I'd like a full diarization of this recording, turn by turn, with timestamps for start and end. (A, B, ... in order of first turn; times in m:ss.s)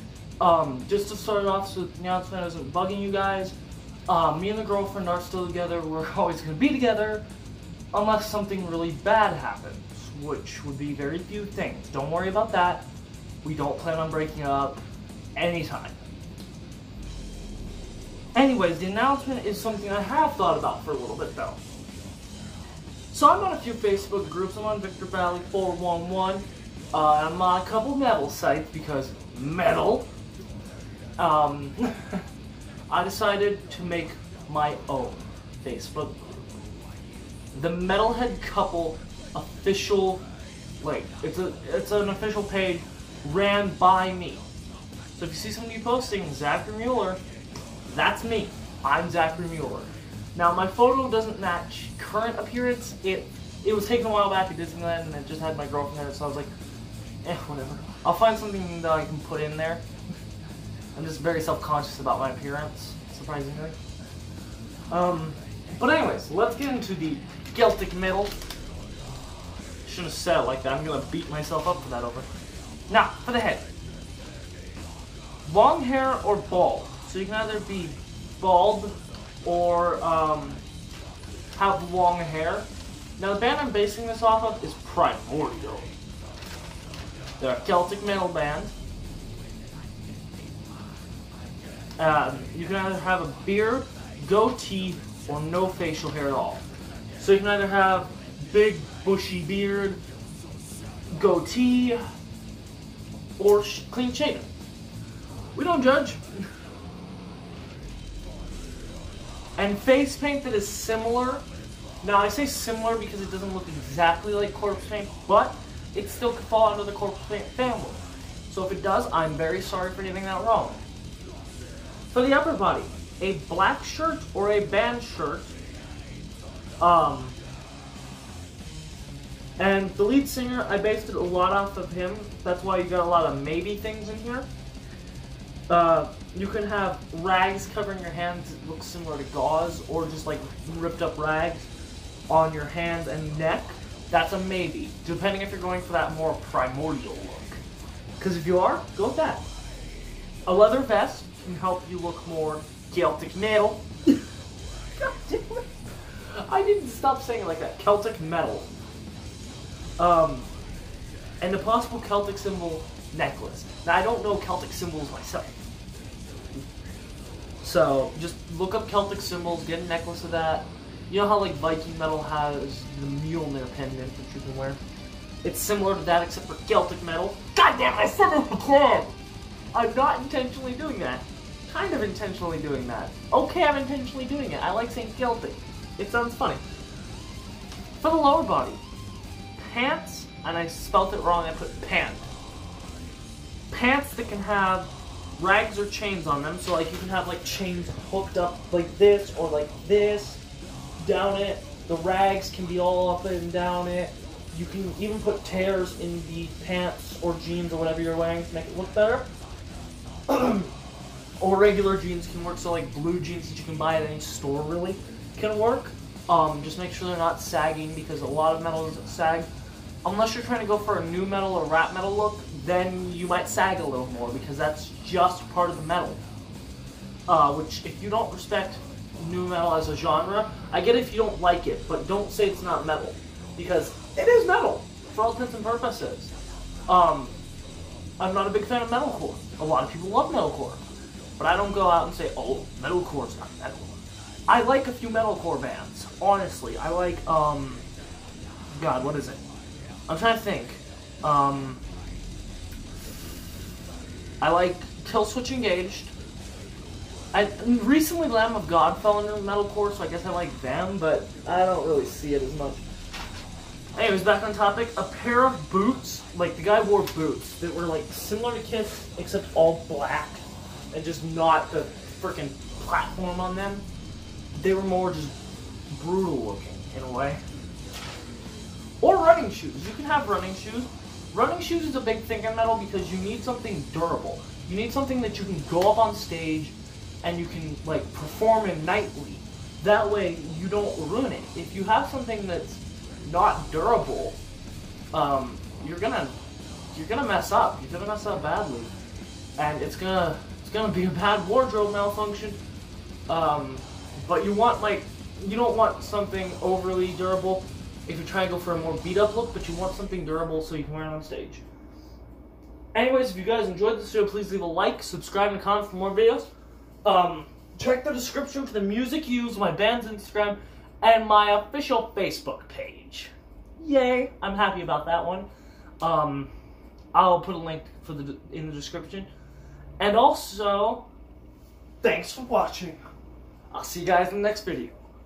0:00.4-0:03.5 A
0:04.1-0:07.2 A
0:07.9-0:12.8 A
0:13.4-0:14.8 A
0:15.4-0:16.0 A
0:18.3-0:21.6 A
0:23.1-0:30.1 A
0:31.2-0:32.2 A
0:32.9-0:36.5 A
0:37.5-0:40.2 A
0:40.8-0:44.4 A
0:45.2-0:47.2 A
0:47.9-0:56.5 A
0:57.2-0:59.8 A
1:00.9-1:03.8 A
1:04.9-1:08.4 A
1:09.8-1:12.3 A
1:12.9-1:13.6 A
1:15.4-1:20.6 A
1:21.5-1:25.9 A
1:27.4-1:28.7 A
1:32.0-1:36.6 A
1:37.2-1:40.0 A
1:41.1-1:42.0 A
1:43.4-1:44.5 A
1:45.5-1:46.4 A
1:49.6-1:51.4 A
1:52.0-2:00.8 A
2:02.1-2:05.6 A
2:06.8-2:07.4 A
2:09.6-2:14.5 A
2:15.7-2:21.7 A
2:22.3-2:27.6 A
2:28.2-2:29.4 A
2:30.5-2:34.1 A
2:35.0-2:35.7 A
2:36.3-2:38.7 A
2:40.0-2:40.5 A
2:41.4-2:45.6 A
2:47.6-2:54.8 A
2:55.4-2:59.1 A
2:59.7-3:06.6 A
3:08.0-3:08.8 A
3:09.6-3:12.3 A
3:13.7-3:20.4 A
3:21.0-3:29.3 A
3:30.3-3:30.7 A
3:31.4-3:39.5 A
3:40.0-3:46.2 A
3:47.3-3:56.3 A
3:56.9-3:57.3 A
3:58.2-4:00.8 A
4:01.4-4:07.8 A
4:08.7-4:09.4 A
4:10.1-4:11.8 A
4:14.4-4:16.1 A
4:17.3-4:22.8 A
4:23.9-4:33.8 A
4:34.5-4:35.4 A
4:35.9-4:37.4 A
4:39.0-4:54.4 A
4:55.1-4:56.4 A
4:56.9-4:58.9 A
4:59.6-5:02.6 A
5:03.3-5:11.6 A
5:12.9-5:16.5 A
5:17.0-5:25.5 A
5:26.0-5:26.5 A
5:27.1-5:29.3 A
5:30.0-5:31.1 A
5:32.0-5:33.0 A
5:33.7-5:35.0 A